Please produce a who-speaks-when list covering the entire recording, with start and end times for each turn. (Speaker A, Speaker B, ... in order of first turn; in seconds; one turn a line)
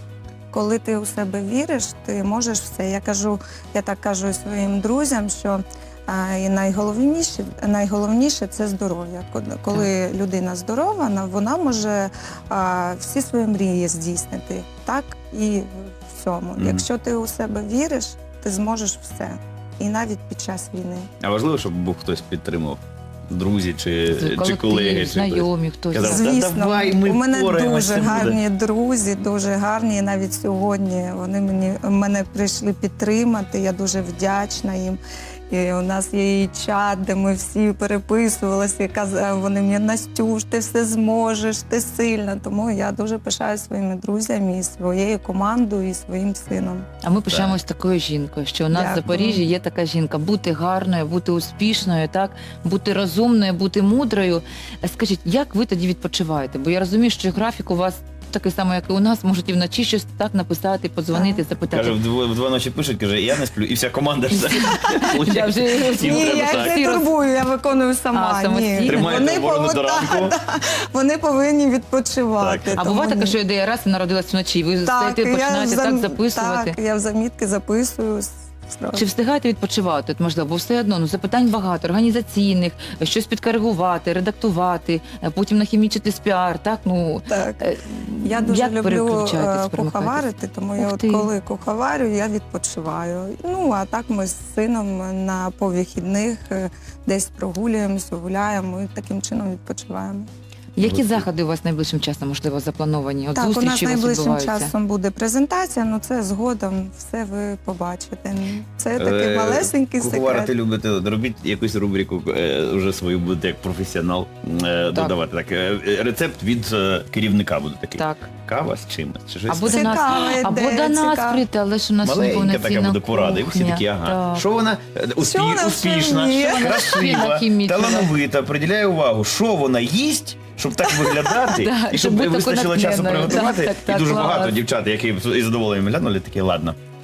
Speaker A: 0.5-21.1
Speaker B: 16.6-16.8
Speaker B: 21.2-28.4
Speaker C: 24.1-26.3
Speaker A: 26.0-35.0
Speaker A: 35.5-46.9
Speaker C: 47.0-62.0
Speaker B: 47.3-47.6
Speaker A: 48.7-49.4
Speaker A: 61.1-61.4
Speaker B: 61.7-66.8
Speaker C: 64.3-67.1
Speaker A: 66.0-73.3
Speaker C: 68.1-69.0
Speaker B: 68.8-70.3
Speaker B: 72.4-72.8
Speaker C: 72.8-76.8
Speaker A: 74.8-79.0
Speaker C: 78.9-90.2
Speaker A: 87.3-87.6
Speaker A: 88.2-100.3
Speaker C: 90.8-91.3
Speaker C: 100.8-104.7
Speaker B: 100.8-101.2
Speaker A: 103.3-110.5
Speaker B: 109.0-119.9
Speaker C: 118.0-118.3
Speaker C: 119.5-124.5
Speaker A: 119.7-121.4
Speaker B: 122.0-136.8
Speaker A: 125.2-127.0
Speaker C: 126.4-128.1
Speaker A: 130.8-131.4
Speaker C: 131.5-134.6